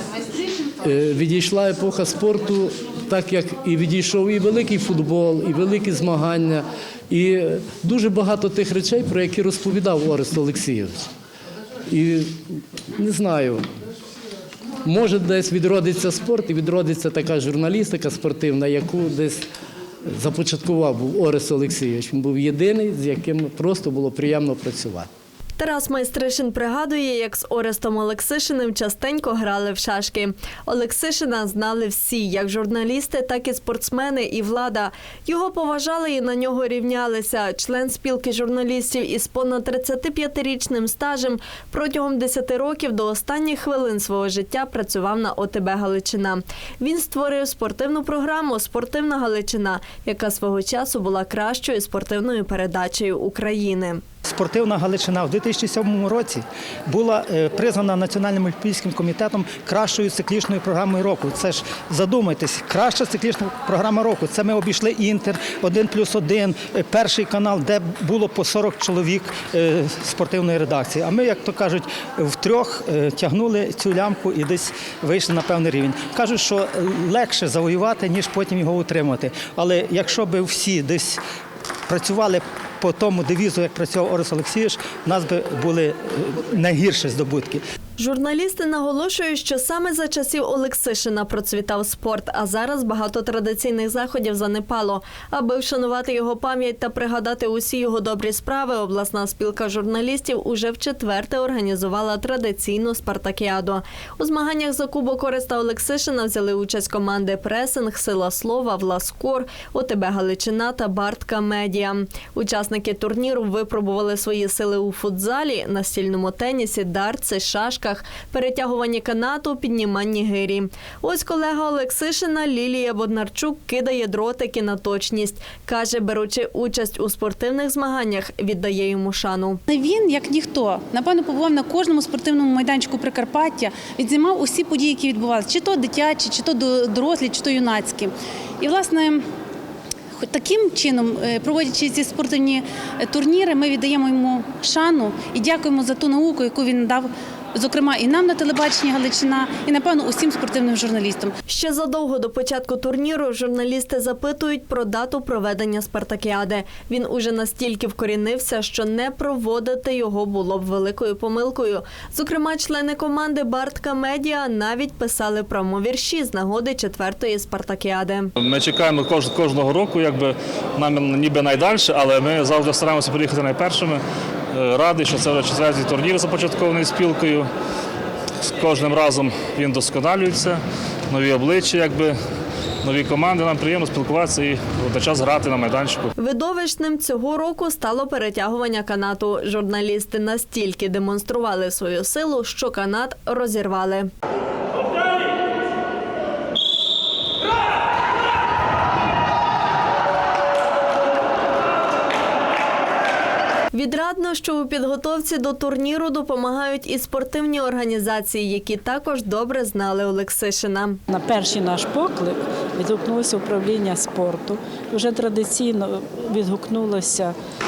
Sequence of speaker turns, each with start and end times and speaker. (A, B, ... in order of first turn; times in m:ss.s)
0:00.8-0:11.1 A
0:11.9-0:13.6 A
0:14.8-0:19.4 A
0:20.1-0:25.1 A
0:25.6-0:54.0 B
0:54.2-1:21.2 C
1:21.9-1:27.6 C
1:28.0-2:09.6 B
2:09.7-2:19.2 D
2:20.2-2:31.3 D
2:31.5-2:48.3 B
2:48.4-2:54.0 E
2:54.5-2:57.5 E
2:58.4-3:02.2 E
3:02.8-3:06.1 E
3:06.2-3:14.1 B
3:23.7-3:31.0 B
3:31.1-3:37.3 F